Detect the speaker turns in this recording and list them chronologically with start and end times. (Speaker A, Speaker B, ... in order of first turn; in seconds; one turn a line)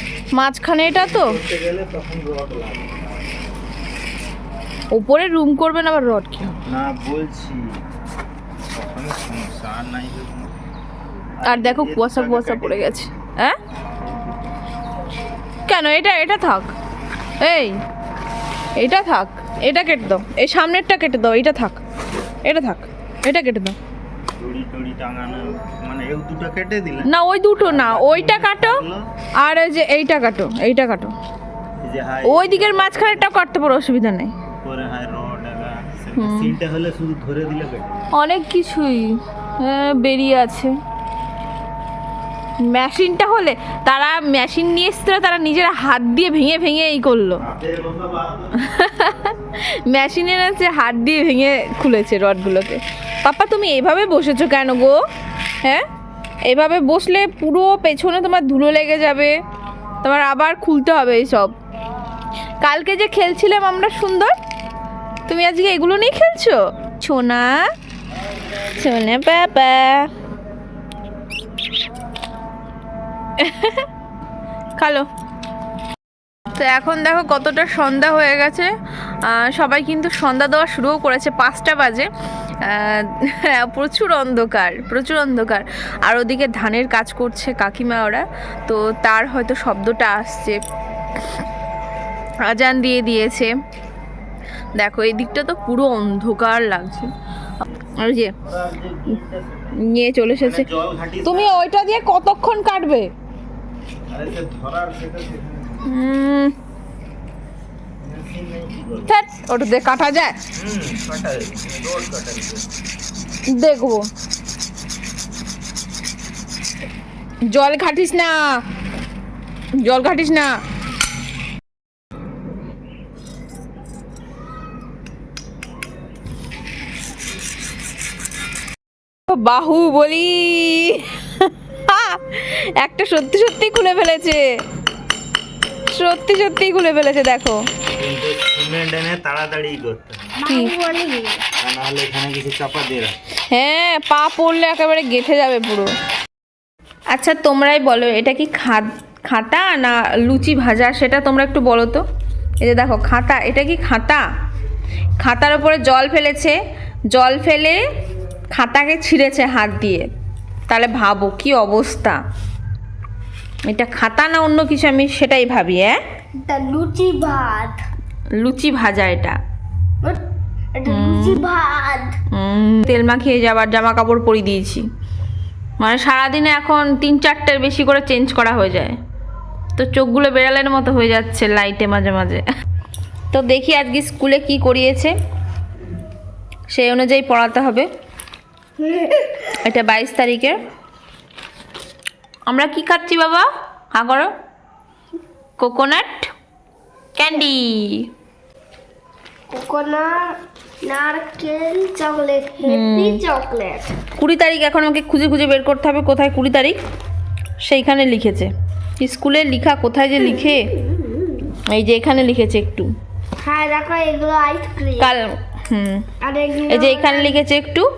Speaker A: 0.3-1.4
Speaker B: 0.8-3.2
Speaker A: 4.9-6.6
Speaker B: 6.7-7.7
Speaker B: 8.7-10.5
Speaker B: 11.4-13.1
Speaker A: 11.4-13.6
Speaker B: 14.0-14.3
Speaker A: 15.7-16.7
Speaker A: 17.4-17.8
Speaker A: 18.8-21.8
Speaker A: 22.4-23.8
Speaker B: 24.4-27.1
Speaker A: 27.0-28.8
Speaker B: 27.6-29.1
Speaker A: 29.4-31.1
Speaker B: 31.8-33.2
Speaker A: 32.2-34.3
Speaker B: 34.6-38.0
Speaker A: 36.1-36.5
Speaker A: 38.1-40.7
Speaker A: 42.6-47.4
Speaker B: 47.4-48.6
Speaker A: 48.5-55.0
Speaker A: 56.5-59.3
Speaker A: 60.0-61.5
Speaker A: 62.6-64.3
Speaker A: 65.3-67.7
Speaker A: 68.5-70.1
Speaker A: 73.4-73.9
Speaker A: 74.8-75.1
Speaker A: 76.5-78.7
Speaker A: 79.2-82.1
Speaker A: 82.6-90.6
Speaker A: 92.4-93.5
Speaker A: 94.8-97.1
Speaker B: 97.6-99.8
Speaker A: 98.0-98.3
Speaker A: 99.8-100.7
Speaker B: 100.4-101.6
Speaker A: 101.2-103.1
Speaker B: 104.1-105.9
Speaker A: 105.8-106.5
Speaker B: 108.0-109.1
Speaker A: 109.1-110.4
Speaker B: 110.5-112.7
Speaker A: 113.5-114.0
Speaker A: 117.5-118.4
Speaker A: 119.8-120.5
Speaker A: 129.3-134.4
Speaker A: 135.9-137.6
Speaker B: 138.0-140.3
Speaker C: 140.4-141.4
Speaker A: 140.4-140.7
Speaker B: 141.6-143.2
Speaker A: 143.5-145.9
Speaker A: 147.1-152.0
Speaker A: 152.6-154.2
Speaker A: 155.2-156.6
Speaker A: 157.1-157.8
Speaker A: 158.5-160.1
Speaker A: 160.7-162.2
Speaker A: 163.7-166.0
Speaker C: 166.4-167.8
Speaker A: 168.4-169.4
Speaker C: 170.7-172.1
Speaker A: 170.8-171.4
Speaker A: 172.3-174.8
Speaker A: 175.8-179.0
Speaker A: 179.8-182.4
Speaker A: 183.3-185.1
Speaker A: 186.7-187.9
Speaker C: 188.8-189.3
Speaker A: 189.4-190.6
Speaker A: 192.5-194.3
Speaker A: 195.6-196.3
Speaker A: 197.2-198.1
Speaker C: 199.5-203.9
Speaker A: 202.6-203.2
Speaker A: 204.1-206.8
Speaker A: 207.6-210.7
Speaker C: 211.0-211.4
Speaker A: 211.5-212.9
Speaker C: 213.4-215.1
Speaker A: 215.0-216.1
Speaker C: 216.2-217.4
Speaker A: 216.7-217.9